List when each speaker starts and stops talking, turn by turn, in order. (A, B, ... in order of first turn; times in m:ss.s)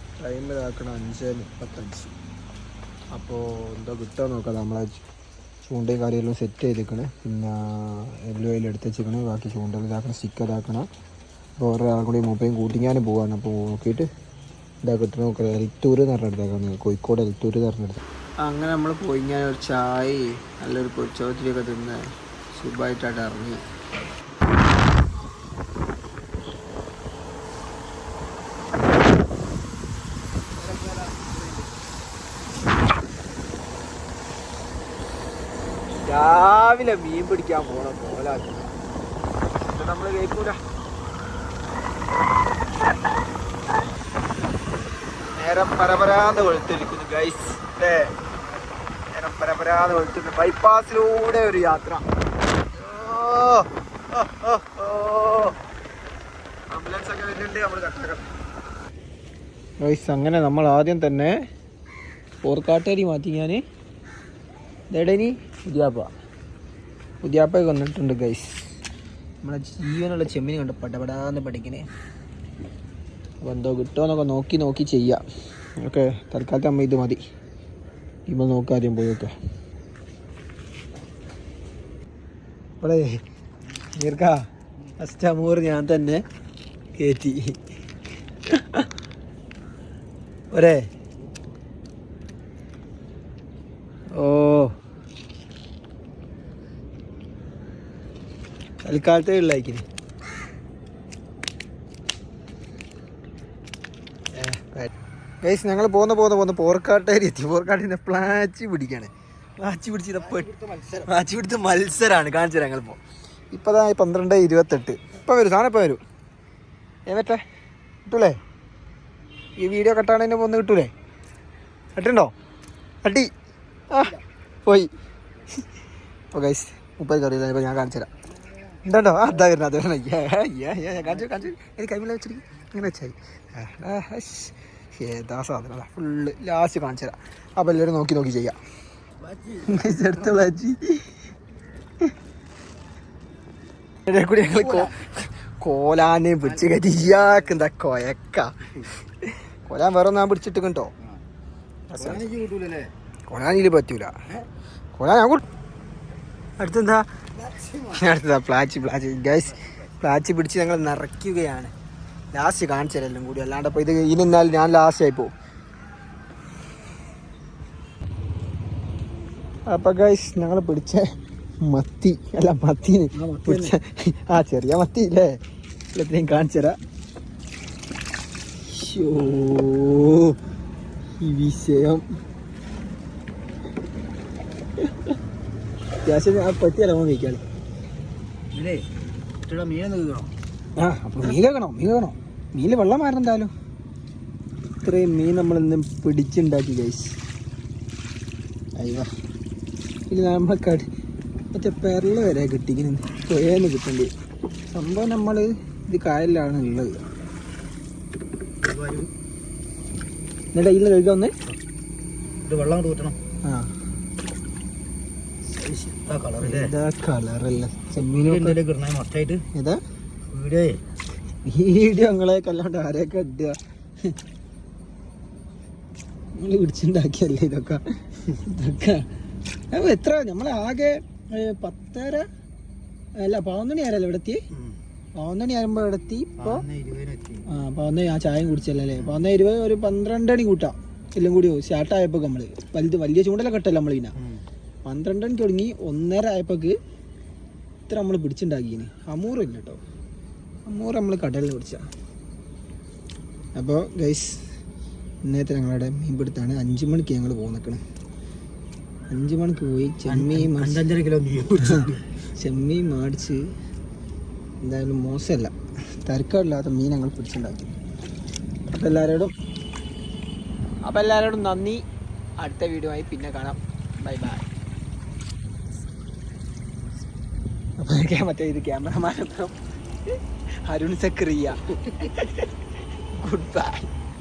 0:00.2-0:02.1 A
0:03.1-0:05.0 A
0:05.7-0:10.9 A
0:11.6-0:14.1 A
0:14.8-0:23.6 A
0:30.6-0:31.4 A
0:36.0-0:38.7 A
0:39.7-0:40.6 A
0:45.3-0:48.1 A
0:49.1-0:52.0 A
0:52.8-0:55.5 A
0:56.7-0:58.2 A
0:59.8-1:01.3 A
1:02.4-1:03.6 A
1:04.9-1:06.1 A
1:07.2-1:08.6 A
1:09.4-1:11.9 A
1:13.4-1:15.2 A
1:15.8-1:17.2 A
1:18.3-1:19.3 A
1:22.8-1:23.2 A
1:24.0-1:24.4 A
1:25.0-1:26.2 A
1:27.0-1:27.6 A
1:28.5-1:28.9 A
1:30.5-1:30.9 A
1:34.1-1:34.8 A
1:38.8-1:39.8 A
1:44.4-1:44.9 A
1:45.4-1:53.0 A
1:50.5-1:50.9 B
1:53.5-1:56.0 A
1:57.1-1:57.4 A
1:58.0-1:58.4 A
1:59.6-2:00.9 A
2:01.9-2:02.3 A
2:03.0-2:03.3 A
2:03.9-2:04.9 A
2:06.3-2:08.1 A
2:08.8-2:18.6 A
2:19.2-2:19.8 B
2:19.6-2:21.0 A
2:24.1-2:30.9 A
2:24.6-2:25.0 B
2:31.9-2:32.3 A
2:31.9-2:32.9 B
2:33.3-2:34.1 A
2:35.0-2:35.4 A
2:36.6-2:41.7 A
2:42.3-2:45.3 A
2:49.7-2:51.1 A
2:51.6-2:55.4 A
2:53.1-2:53.7 B
2:55.9-2:56.8 A
2:58.6-3:00.4 A
3:01.2-3:02.0 A
3:06.0-3:07.4 A
3:08.5-3:08.8 B
3:09.4-3:10.3 B
3:10.8-3:13.5 A
3:14.8-3:17.1 A
3:18.8-3:19.1 A
3:20.1-3:20.9 A
3:21.5-3:24.1 A
3:24.7-3:27.0 A
3:28.6-3:29.1 B
3:30.5-3:31.3 A
3:32.4-3:33.2 B
3:33.4-3:33.7 A
3:35.5-3:36.7 B
3:36.4-3:38.6 A
3:38.0-3:39.4 B
3:39.5-3:39.8 A
3:40.3-3:40.8 B
3:41.4-3:43.6 A
3:46.3-3:49.1 A
3:49.7-3:52.3 A
3:53.2-3:54.4 A
3:54.5-3:54.8 B
3:55.2-3:56.6 A
3:56.4-3:57.5 B
3:57.5-4:04.1 A
4:04.8-4:06.8 A
4:07.9-4:09.8 A
4:10.7-4:11.9 A
4:13.5-4:14.4 A
4:15.2-4:17.8 A
4:19.1-4:20.9 A
4:20.1-4:22.0 B
4:21.7-4:23.5 A
4:24.6-4:25.5 A
4:26.0-4:27.7 A
4:28.7-4:29.3 A
4:30.8-4:31.8 A
4:32.4-4:34.5 A
4:37.8-4:39.5 A
4:40.6-4:42.4 A
4:43.1-4:43.8 A